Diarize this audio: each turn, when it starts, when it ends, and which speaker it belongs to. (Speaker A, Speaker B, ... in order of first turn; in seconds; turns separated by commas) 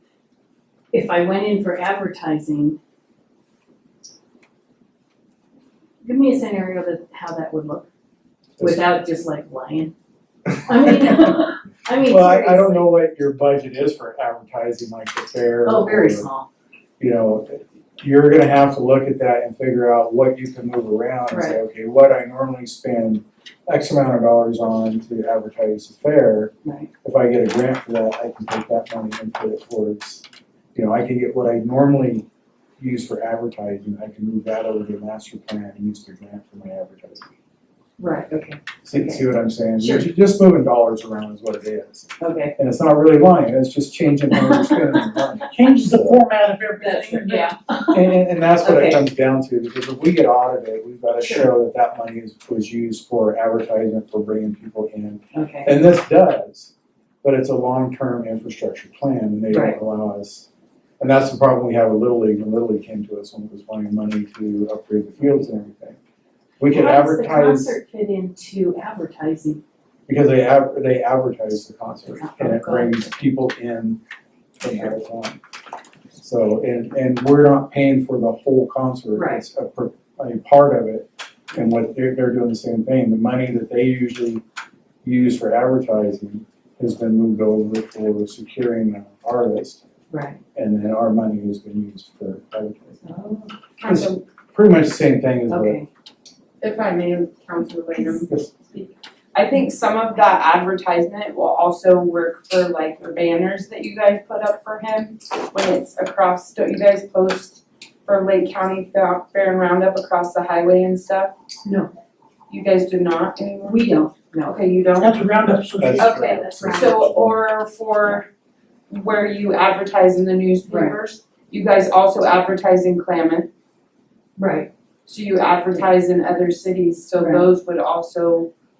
Speaker A: 0.9-2.8, Speaker A: 6.0-7.9, Speaker B: 8.6-8.8, Speaker A: 8.6-9.9, Speaker A: 10.5-12.9, Speaker B: 10.8-11.2, Speaker B: 12.0-16.3, Speaker A: 15.7-16.5, Speaker B: 17.0-26.5, Speaker A: 21.3-21.6, Speaker A: 26.6-26.9, Speaker B: 27.0-30.2, Speaker B: 30.8-32.3, Speaker B: 32.8-37.3, Speaker A: 38.0-40.1, Speaker B: 38.9-46.2, Speaker A: 42.2-42.5, Speaker C: 45.5-47.5, Speaker A: 46.8-49.0, Speaker B: 47.9-56.7, Speaker A: 51.2-51.5, Speaker A: 55.3-55.8, Speaker B: 57.2-60.5, Speaker A: 59.5-59.8, Speaker B: 61.0-66.0, Speaker B: 66.6-67.8, Speaker A: 66.7-69.6, Speaker B: 70.1-74.0, Speaker A: 72.1-73.2, Speaker B: 74.6-75.4, Speaker B: 76.2-84.4, Speaker A: 79.2-79.4, Speaker B: 85.0-89.8, Speaker A: 90.1-90.4, Speaker B: 90.5-93.0, Speaker A: 93.0-93.5, Speaker D: 93.8-94.2, Speaker B: 93.8-95.8, Speaker A: 95.5-95.9, Speaker D: 96.6-111.3, Speaker B: 98.0-98.5, Speaker A: 111.7-111.9, Speaker D: 112.5-115.2, Speaker A: 113.7-114.7, Speaker C: 115.0-116.2, Speaker B: 115.8-117.4, Speaker A: 116.0-117.0, Speaker D: 116.0-118.3, Speaker D: 118.9-123.5, Speaker A: 120.7-121.0, Speaker A: 124.4-124.7, Speaker D: 125.1-128.5, Speaker A: 127.1-127.5